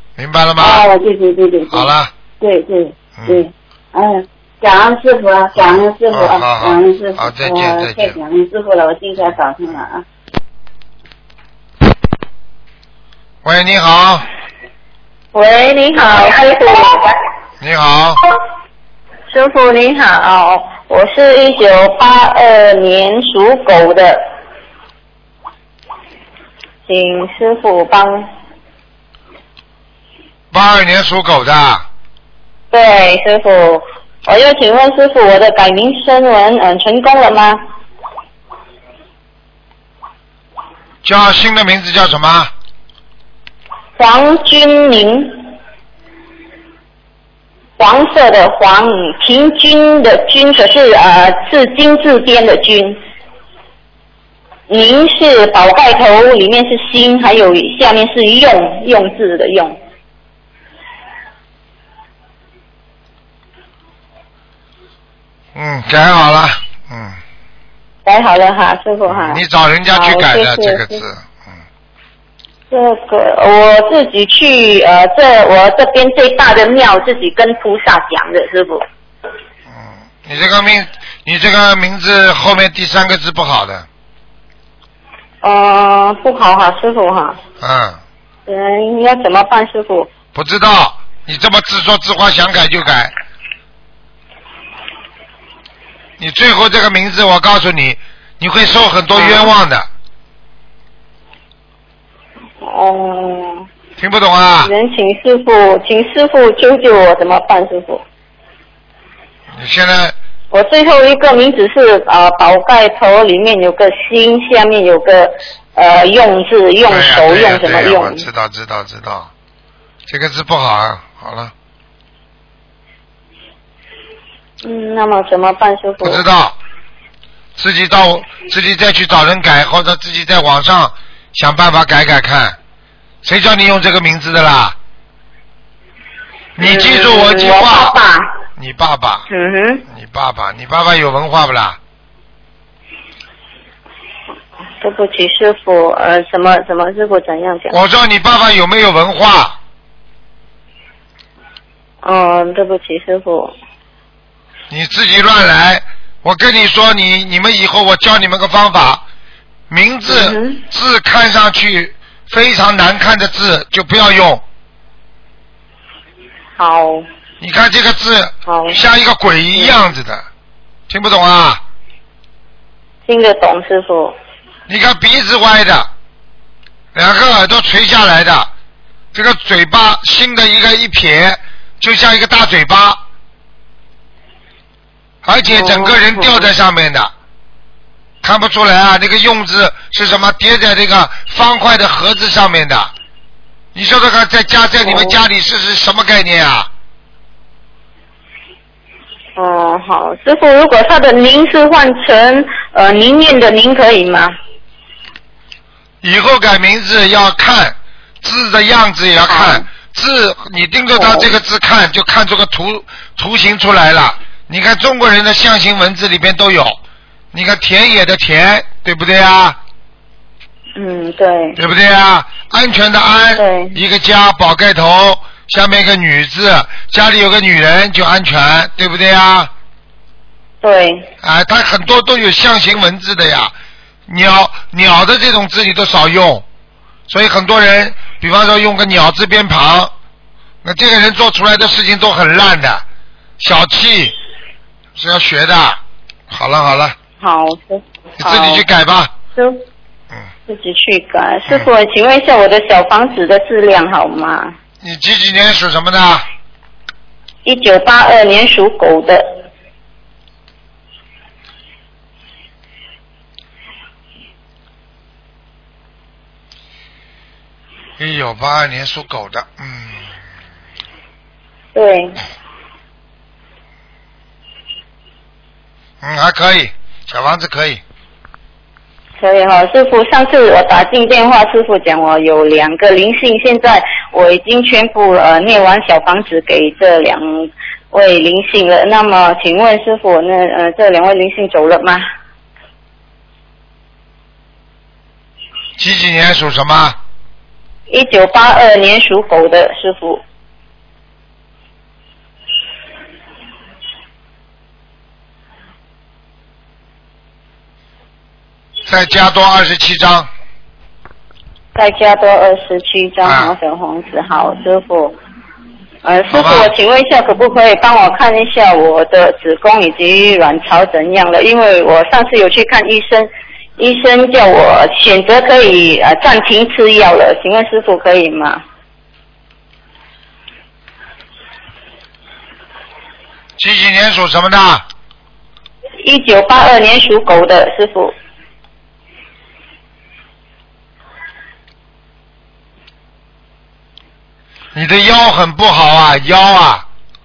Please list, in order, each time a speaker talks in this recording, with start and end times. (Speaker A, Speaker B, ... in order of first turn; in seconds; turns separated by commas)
Speaker A: 0.2-0.9, Speaker B: 0.6-10.0, Speaker A: 1.7-2.1, Speaker A: 3.2-3.4, Speaker A: 5.6-8.2, Speaker A: 13.4-14.3, Speaker C: 15.3-17.1, Speaker A: 17.6-18.2, Speaker C: 19.3-24.3, Speaker C: 26.9-28.3, Speaker A: 30.5-31.9, Speaker C: 32.7-37.6, Speaker A: 41.0-42.5, Speaker C: 44.0-45.5, Speaker C: 47.8-53.0, Speaker C: 54.7-59.8, Speaker A: 65.5-67.2, Speaker C: 68.0-71.0, Speaker A: 69.1-71.6, Speaker C: 72.7-78.8, Speaker A: 79.7-83.9, Speaker C: 85.4-87.4, Speaker A: 87.6-88.0, Speaker C: 88.5-90.1, Speaker A: 90.3-93.1, Speaker A: 96.2-99.9, Speaker C: 99.1-99.5, Speaker C: 102.6-103.7, Speaker A: 104.0-104.7, Speaker C: 104.6-108.0, Speaker A: 109.5-110.2, Speaker C: 110.5-118.3, Speaker A: 116.9-119.3, Speaker A: 120.1-121.5, Speaker C: 124.6-126.2, Speaker A: 126.0-126.6, Speaker A: 127.6-132.6, Speaker A: 133.2-134.8, Speaker A: 136.6-138.0, Speaker C: 136.6-138.3, Speaker A: 138.6-139.3, Speaker C: 139.3-139.8, Speaker A: 139.9-141.8, Speaker C: 144.8-147.8, Speaker A: 147.7-149.6, Speaker C: 152.0-153.6, Speaker A: 154.7-159.0, Speaker A: 159.7-164.4, Speaker C: 160.1-160.6, Speaker C: 166.6-167.1, Speaker A: 167.4-170.2, Speaker C: 168.5-168.8, Speaker C: 169.5-169.9, Speaker A: 170.9-171.6, Speaker C: 173.1-174.2, Speaker A: 174.7-175.9, Speaker A: 176.9-178.5, Speaker A: 179.1-183.0, Speaker A: 185.2-187.1, Speaker C: 185.4-186.5, Speaker A: 188.2-192.9, Speaker A: 193.8-196.7, Speaker C: 194.8-195.2, Speaker C: 199.4-204.4, Speaker A: 206.0-216.8, Speaker C: 209.2-209.7, Speaker C: 210.9-211.3, Speaker A: 217.3-219.6, Speaker C: 220.8-221.6, Speaker A: 221.6-229.5, Speaker C: 223.3-223.8, Speaker C: 230.6-231.1, Speaker A: 231.2-233.5, Speaker A: 234.1-236.4, Speaker A: 237.1-239.9, Speaker A: 240.6-242.8, Speaker A: 243.4-244.2, Speaker A: 245.0-247.0, Speaker C: 247.2-248.7, Speaker A: 248.2-249.1, Speaker C: 249.4-249.6, Speaker C: 250.5-254.6, Speaker A: 254.8-256.2, Speaker C: 257.4-259.4, Speaker A: 268.0-270.1, Speaker C: 271.7-272.1, Speaker A: 276.0-277.8, Speaker C: 279.2-292.0, Speaker A: 295.8-297.0, Speaker C: 297.9-300.2, Speaker A: 308.9-310.3, Speaker C: 311.8-315.2, Speaker A: 313.2-313.6, Speaker C: 316.0-328.6, Speaker A: 316.3-316.7, Speaker A: 333.6-334.9, Speaker C: 336.0-338.1, Speaker A: 344.7-346.9